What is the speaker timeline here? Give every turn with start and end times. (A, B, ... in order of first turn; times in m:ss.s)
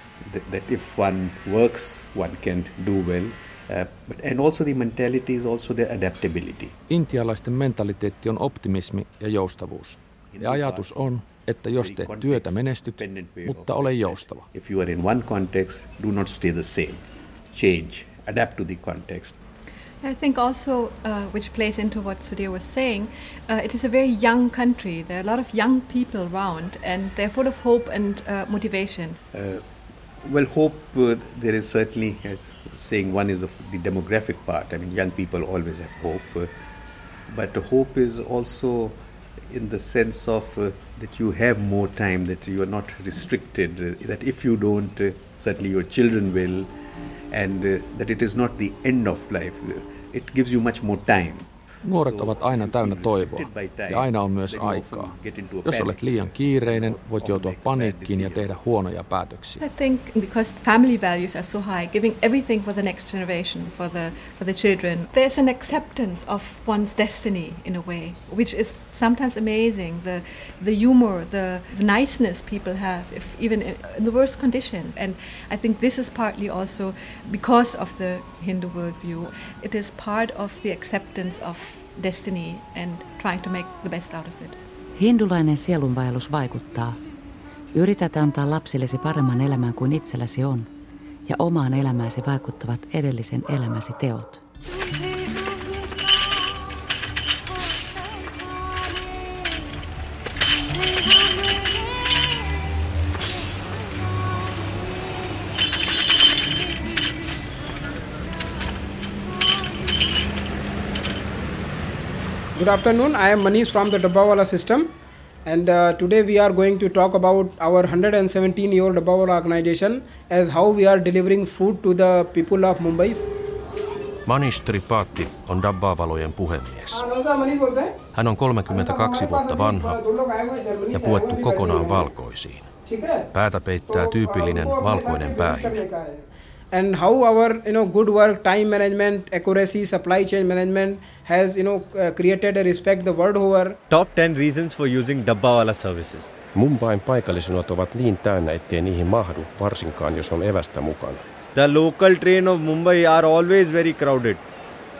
0:00.2-0:06.7 A
0:06.9-0:14.5 B
0:10.3-0:11.0 A
0:11.7-0:19.4 A
0:20.0-0:29.2 C
0:29.3-0:29.6 A
0:30.2-0:36.5 A
0:37.3-0:46.7 A
0:47.3-0:58.6 A
0:51.8-0:59.6 B
0:59.6-1:24.6 C
1:25.0-1:27.0 D
1:27.7-1:30.7 D
1:31.2-1:34.4 D
1:52.6-1:54.9 E
1:55.4-2:03.2 E
2:04.2-2:07.0 F
2:06.9-2:07.9 E
2:08.1-2:10.0 F
2:08.7-2:12.1 E
2:10.9-2:12.7 F
2:12.9-2:13.3 E
2:13.3-2:15.8 F
2:13.9-2:23.8 E
2:23.9-2:26.3 G
2:26.6-2:31.2 H
2:31.5-2:34.4 G